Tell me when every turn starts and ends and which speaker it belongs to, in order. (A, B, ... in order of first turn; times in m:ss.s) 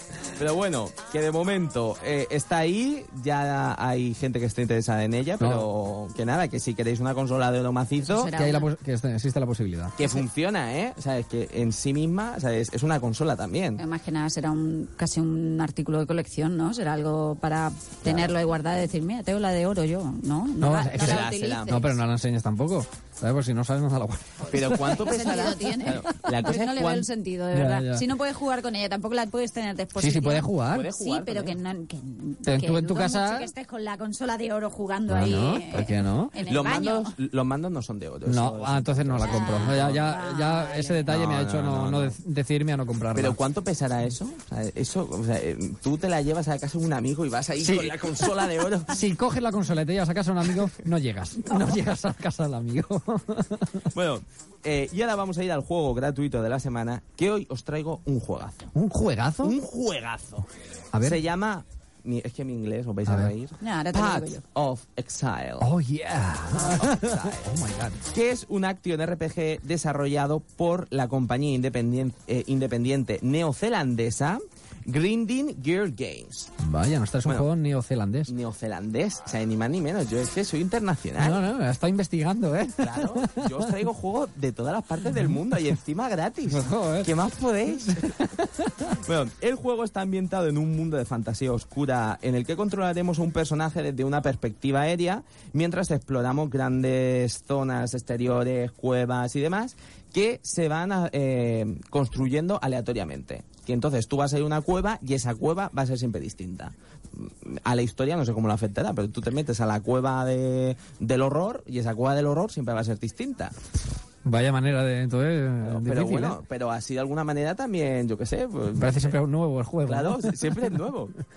0:00.4-0:08.3 A
0:05.4-0:05.7 B
0:08.0-0:08.7 C
0:08.4-0:10.0 B
0:10.0-0:13.8 A
0:13.8-0:22.0 C
0:18.0-0:18.4 A
0:20.6-0:24.9 B
0:21.0-0:21.9 A
0:24.5-0:27.1 A
0:24.8-0:37.1 C
0:27.5-0:28.0 B
0:30.0-0:30.9 B
0:30.7-0:31.6 A
0:32.4-0:33.5 B
0:35.1-0:36.3 B
0:36.5-0:40.1 A
0:38.2-0:43.4 B
0:39.2-0:41.1 C
0:41.1-0:42.2 A
0:43.1-0:49.0 A
0:47.6-0:48.4 B
0:48.9-0:53.9 B
0:53.9-0:58.7 A
0:58.7-0:59.6 B
0:59.4-1:00.5 A
1:00.9-1:01.2 B
1:01.0-1:05.7 A
1:03.1-1:03.3 B
1:03.6-1:04.4 C
1:05.6-1:08.0 B
1:06.5-1:07.5 A
1:08.1-1:16.5 A
1:16.6-1:18.3 B
1:18.3-1:21.5 A
1:21.2-1:23.7 B
1:22.8-1:28.2 A
1:26.5-1:27.1 B
1:27.9-1:28.7 B
1:28.9-1:53.5 A
1:54.2-1:56.4 B
1:55.6-1:59.2 A
1:58.8-2:00.4 B
1:59.9-2:01.1 A